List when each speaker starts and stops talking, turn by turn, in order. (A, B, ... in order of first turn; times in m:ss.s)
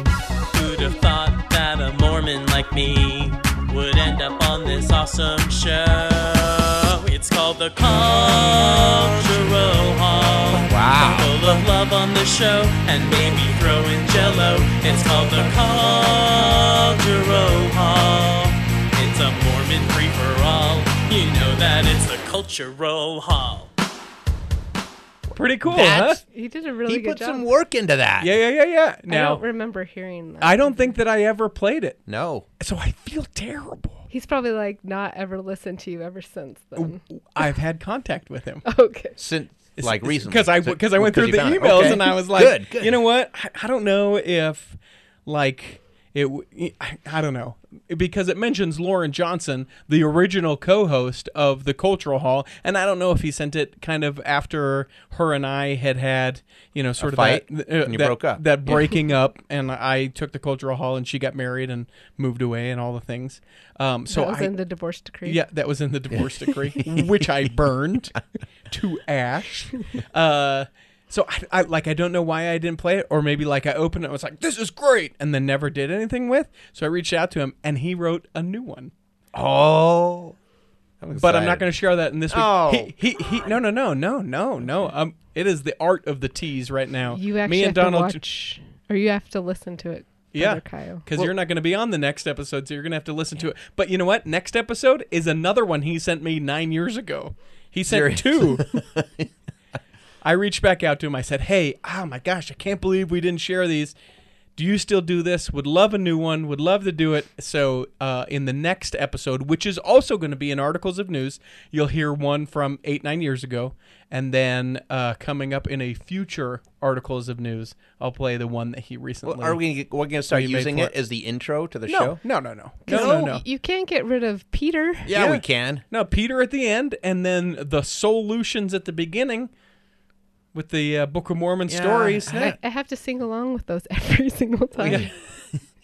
0:00.5-0:23.7 A
0:10.7-0:11.3 B
0:25.3-0:26.2 C
0:25.6-0:26.2 B
0:26.3-0:27.5 D
0:26.8-0:28.3 B
0:28.2-0:29.4 C
0:29.1-0:31.0 D
0:30.4-0:32.0 C
0:32.0-0:32.5 B
0:32.6-0:34.0 C
0:34.1-0:37.0 D
0:36.8-0:38.6 C
0:38.6-0:39.2 D
0:39.2-0:43.0 B
0:39.8-1:04.5 C
0:57.0-0:58.4 B
1:04.1-1:05.4 D
1:05.2-1:18.9 C
1:06.8-1:07.3 B
1:19.3-1:20.4 B
1:21.0-1:21.7 B
1:21.1-1:28.2 C
1:22.3-1:22.9 B
1:27.1-1:31.0 D
1:30.3-1:38.7 C
1:37.9-1:39.3 B
1:40.2-1:43.9 C
1:44.6-1:59.6 C
1:59.2-2:02.2 B
2:00.3-2:00.9 C
2:01.9-2:02.2 D
2:02.1-2:03.4 C
2:02.8-2:05.1 D
2:05.1-2:05.8 B
2:05.1-2:09.5 C
2:10.5-2:12.6 C
2:11.7-2:12.6 B
2:12.4-2:15.1 D
2:14.8-2:15.1 C
2:14.8-2:15.1 B